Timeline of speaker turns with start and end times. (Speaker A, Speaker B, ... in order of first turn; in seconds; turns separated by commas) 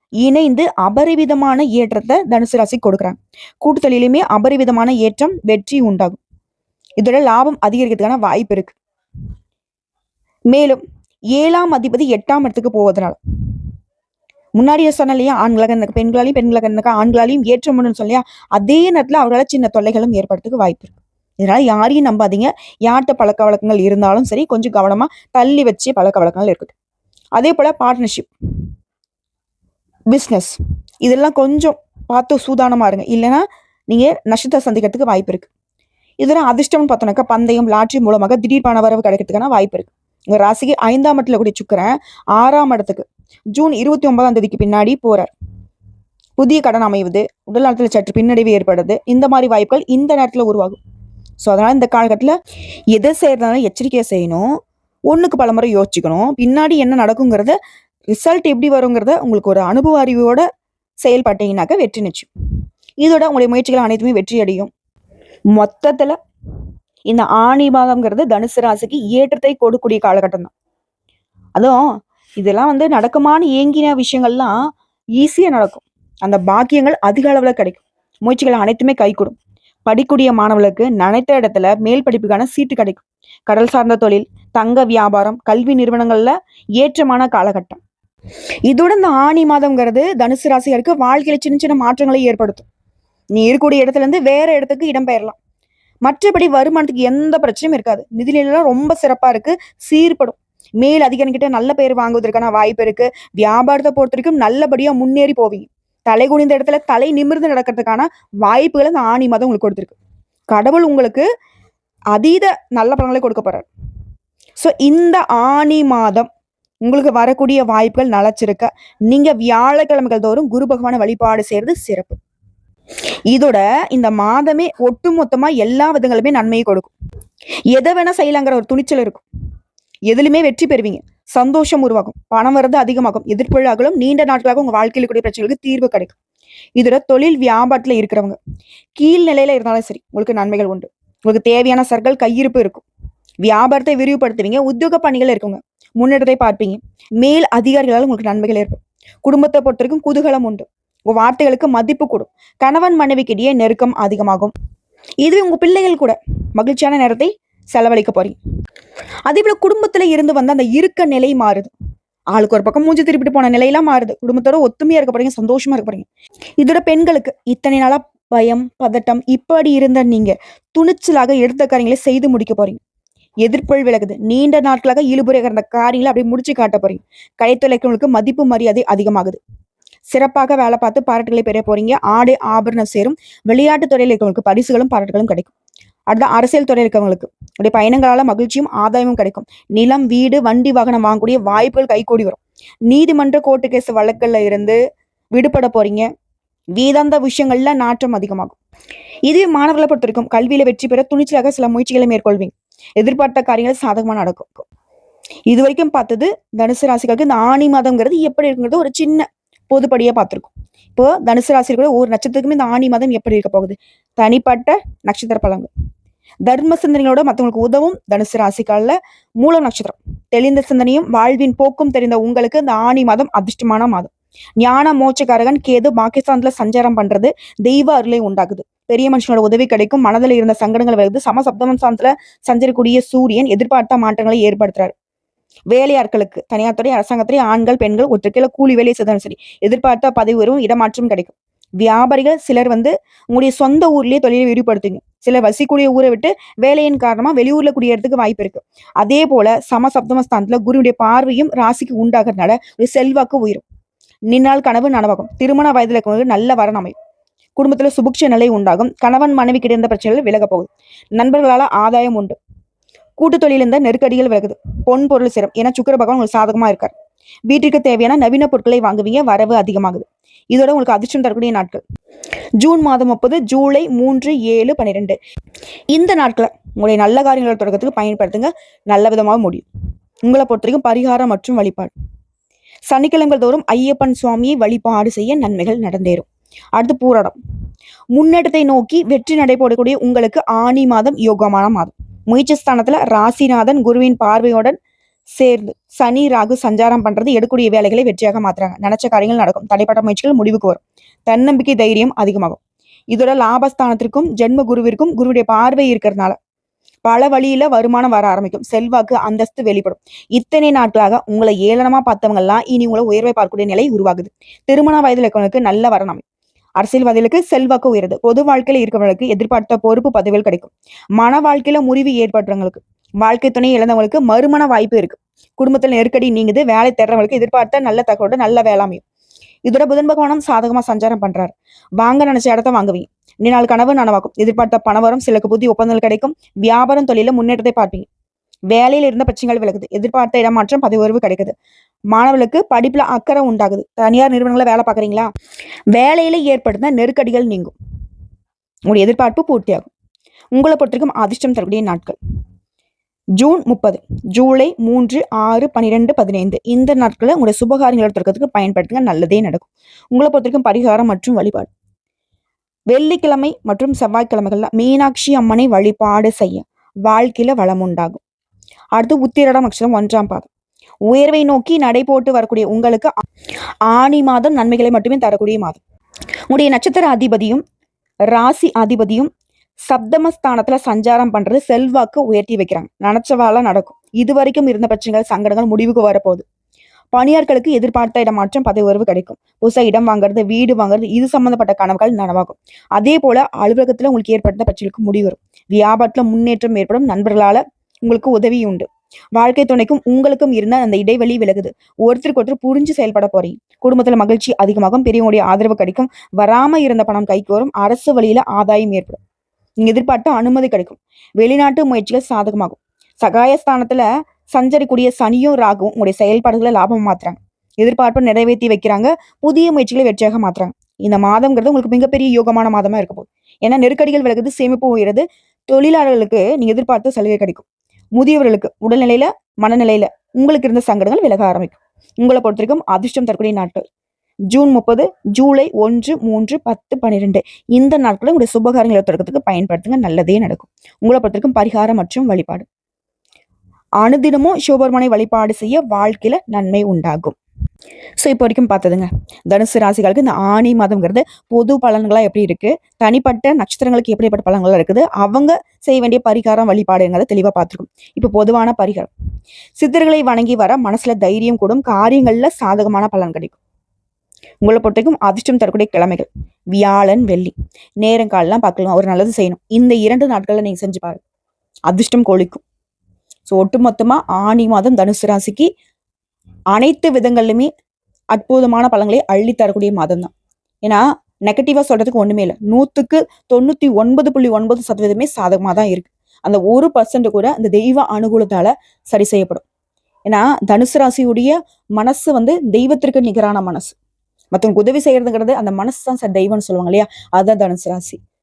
Speaker A: 0.2-6.2, Speaker A: 7.0-8.8, Speaker A: 10.5-10.8, Speaker A: 11.3-13.2, Speaker A: 14.6-26.7, Speaker A: 27.4-28.3, Speaker A: 30.1-35.5, Speaker A: 36.2-45.3, Speaker A: 46.4-50.8, Speaker A: 51.4-52.4, Speaker A: 52.9-54.5, Speaker A: 55.1-57.6, Speaker A: 58.1-60.4, Speaker A: 61.0-62.3, Speaker A: 63.0-64.7, Speaker A: 65.5-66.2, Speaker A: 67.1-70.5, Speaker A: 71.6-71.8, Speaker A: 72.4-74.5, Speaker A: 75.2-79.3, Speaker A: 79.9-87.8, Speaker A: 88.7-92.7, Speaker A: 93.3-95.4, Speaker A: 96.0-110.0, Speaker A: 110.5-111.2, Speaker A: 112.1-113.7, Speaker A: 114.6-116.3, Speaker A: 116.8-122.2, Speaker A: 123.3-126.9, Speaker A: 127.7-129.2, Speaker A: 130.1-136.2, Speaker A: 136.8-138.4, Speaker A: 139.0-142.8, Speaker A: 143.4-154.5, Speaker A: 155.2-158.4, Speaker A: 159.3-161.7, Speaker A: 162.3-166.1, Speaker A: 166.6-172.8, Speaker A: 173.4-179.4, Speaker A: 180.1-185.5, Speaker A: 186.1-194.8, Speaker A: 195.3-196.1, Speaker A: 196.8-198.6, Speaker A: 199.3-204.7, Speaker A: 205.5-215.7, Speaker A: 216.5-234.9, Speaker A: 235.7-253.6, Speaker A: 254.3-256.9, Speaker A: 257.6-262.4, Speaker A: 263.2-266.9, Speaker A: 267.5-271.8, Speaker A: 272.6-275.2, Speaker A: 275.9-279.6, Speaker A: 280.2-281.9, Speaker A: 282.9-287.4, Speaker A: 288.1-294.8, Speaker A: 295.3-302.6, Speaker A: 303.1-306.4, Speaker A: 307.1-316.2, Speaker A: 316.8-329.0, Speaker A: 329.7-338.1, Speaker A: 338.7-341.5, Speaker A: 342.1-345.3, Speaker A: 345.9-347.7, Speaker A: 348.9-349.9, Speaker A: 350.5-352.2, Speaker A: 353.4-361.7, Speaker A: 362.9-368.2, Speaker A: 369.0-370.5, Speaker A: 371.1-373.1, Speaker A: 373.9-375.8, Speaker A: 376.5-377.6, Speaker A: 378.3-379.3, Speaker A: 379.9-386.4, Speaker A: 387.1-409.2, Speaker A: 409.8-433.8, Speaker A: 434.5-442.7, Speaker A: 444.0-447.4, Speaker A: 448.2-459.1, Speaker A: 459.8-463.6, Speaker A: 464.6-471.2, Speaker A: 471.9-472.6, Speaker A: 473.5-475.7, Speaker A: 476.7-477.7, Speaker A: 478.3-480.3, Speaker A: 480.9-489.6, Speaker A: 490.3-493.9, Speaker A: 494.5-498.2